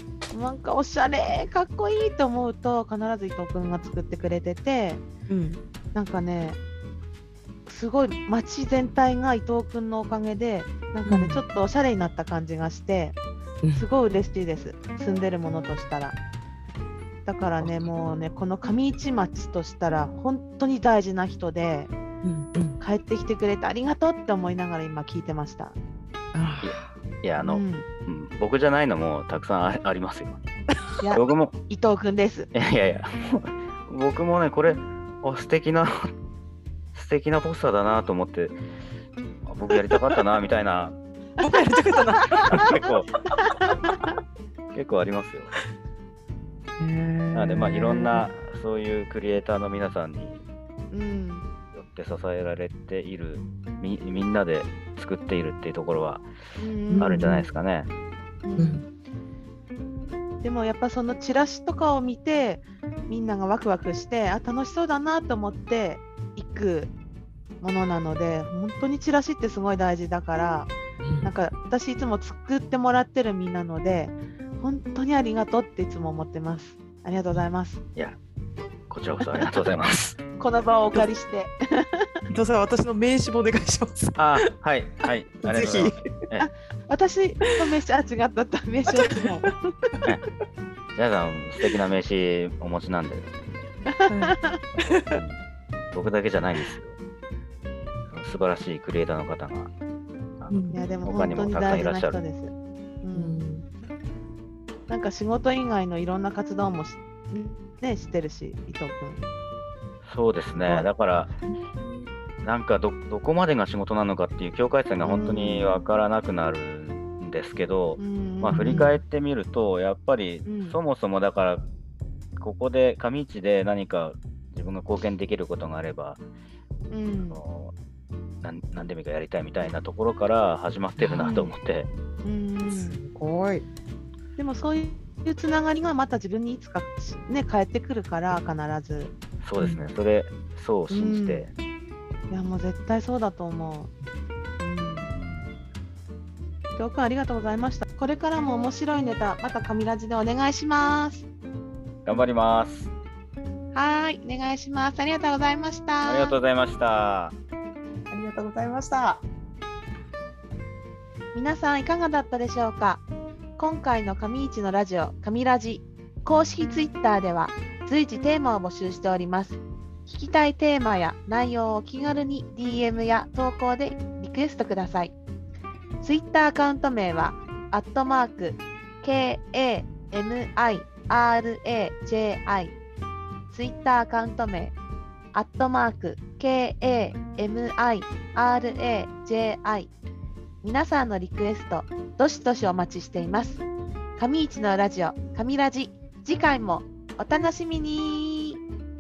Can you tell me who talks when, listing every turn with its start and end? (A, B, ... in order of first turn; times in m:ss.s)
0:00.3-0:05.0 A
0:05.3-0:05.6 B
0:05.9-0:06.6 A
0:07.7-0:13.2 A
0:11.1-0:11.4 B
0:13.6-0:13.9 B
0:13.7-0:16.2 A
0:17.2-0:21.9 A
0:17.6-0:17.9 B
0:22.2-0:22.8 B
0:22.8-0:25.8 A
0:26.3-0:26.9 B
0:26.6-0:30.4 C
0:27.4-0:27.9 A
0:31.0-0:32.5 A
0:31.1-0:31.6 C
0:32.5-0:36.1 C
0:37.0-0:38.6 C
0:39.4-0:41.0 C
0:41.4-0:42.6 B
0:42.5-0:43.1 C
0:43.4-0:44.1 A
0:44.7-0:45.6 C
0:46.8-0:48.3 B
0:47.3-0:50.4 C
0:50.9-0:51.5 A
0:51.7-0:56.3 C
0:56.6-0:57.2 A
0:56.9-0:57.6 B
0:57.0-0:57.9 C
0:58.4-0:58.8 A
0:58.6-0:58.8 B
1:00.4-1:06.9 A
1:07.6-1:10.7 A
1:11.0-1:11.3 B
1:11.2-1:17.8 A
1:18.9-1:20.2 C
1:20.4-1:22.1 A
1:22.3-1:24.5 B
1:24.2-1:26.5 C
1:25.4-1:26.1 B
1:26.4-1:29.9 A
1:28.9-1:30.1 B
1:31.0-1:33.3 C
1:33.9-1:34.6 A
1:34.1-1:35.2 B
1:35.1-1:35.4 C
1:35.9-1:37.0 C
1:38.1-1:39.7 C
1:40.4-1:42.2 C
1:40.5-1:40.8 B
1:40.7-1:43.4 A
1:43.1-1:43.6 B
1:44.9-1:49.2 A
1:50.0-1:51.3 C
1:50.5-1:50.9 A
1:52.4-2:01.7 C
1:55.0-1:55.8 A
1:58.0-1:58.9 A
1:58.5-1:59.0 B
2:00.4-2:00.8 A
2:02.4-2:06.2 C
2:06.9-2:07.4 A
2:07.1-2:07.7 C
2:08.4-2:11.9 C
2:11.0-2:11.3 B
2:11.2-2:11.5 A
2:12.2-2:13.0 A
2:12.7-2:13.7 B
2:14.4-2:19.1 A
2:19.4-2:21.5 C
2:19.6-2:19.9 B
2:20.9-2:21.5 A
2:22.3-2:23.9 A
2:24.6-2:25.2 A
2:25.1-2:25.5 C
2:26.8-2:31.3 A
2:32.1-2:32.9 C
2:33.7-2:36.4 A
2:36.0-2:37.4 C
2:38.1-2:39.2 B
2:41.3-2:43.0 A
2:43.6-2:55.2 A
2:56.0-3:02.8 A
3:03.5-3:04.8 A
3:05.3-3:09.9 A
3:10.6-3:13.6 A
3:14.2-3:18.6 A